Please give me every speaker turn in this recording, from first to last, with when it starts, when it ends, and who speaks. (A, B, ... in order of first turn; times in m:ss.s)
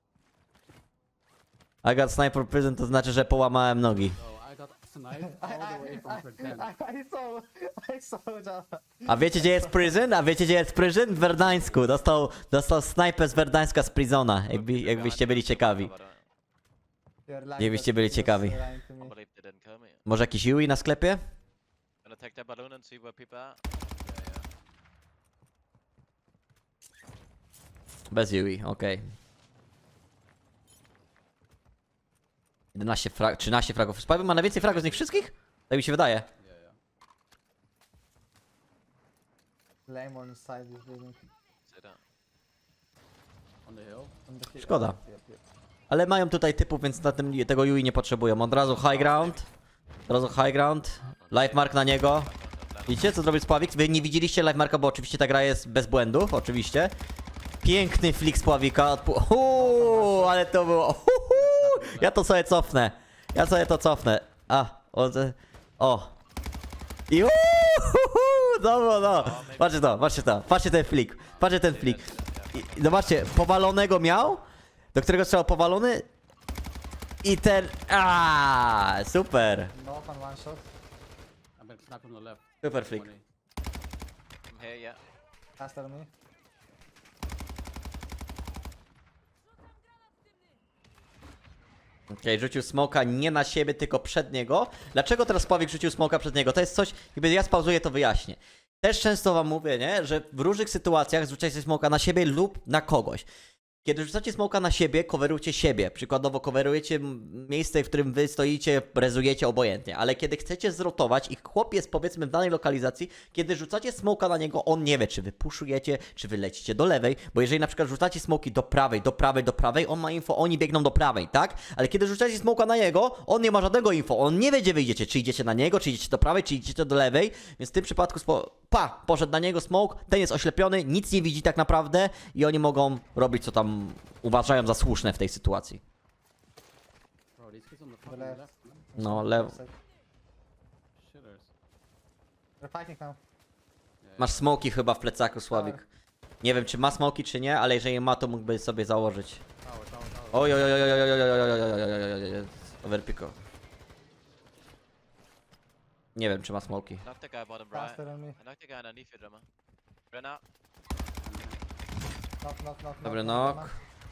0:01.8-0:04.2 A
0:04.1-0:06.7 B
0:05.2-0:10.0 C
0:09.0-0:15.9 A
0:14.5-0:16.2 D
0:17.3-0:19.1 C
0:17.6-0:18.6 A
0:19.0-0:20.0 D
0:20.0-0:21.2 A
0:22.0-0:23.6 D
0:24.0-0:24.5 B
0:28.1-0:29.1 A
0:32.7-0:36.3 A
0:34.5-0:35.3 B
0:36.4-0:36.8 B
0:39.9-0:41.2 C
0:41.6-0:42.0 D
0:43.6-0:44.1 B
0:44.3-0:45.4 C
0:44.6-0:45.0 A
0:45.9-0:49.4 A
0:48.9-0:49.3 D
0:49.0-0:49.3 B
0:50.1-0:52.3 A
0:51.0-0:51.5 B
0:51.3-0:53.2 D
0:52.9-0:56.9 A
0:57.6-1:06.1 A
0:59.5-1:00.4 C
1:01.3-1:02.2 B
1:07.1-1:14.4 A
1:09.1-1:10.1 D
1:11.2-1:12.1 B
1:11.5-1:13.2 D
1:14.9-1:16.1 A
1:17.2-1:19.7 A
1:19.7-1:20.0 B
1:19.8-1:20.7 C
1:21.6-1:23.2 B
1:22.6-1:23.1 A
1:24.5-1:25.0 D
1:25.6-1:26.1 C
1:32.1-1:43.2 A
1:43.8-2:15.8 A
2:17.4-2:18.8 B
2:18.0-2:19.7 C
2:19.0-2:19.6 A
2:21.0-2:21.5 B
2:22.6-2:23.2 C
2:24.0-2:24.5 B
2:24.2-2:25.8 A
2:25.5-2:25.8 C
2:26.4-2:29.4 A
2:29.6-2:31.1 B
2:30.3-2:33.4 A
2:36.2-2:37.0 A
2:37.0-2:39.4 D
2:37.7-2:38.4 C
2:40.1-2:40.4 D
2:41.2-2:41.6 B
2:42.4-2:43.7 C
2:43.0-2:43.7 A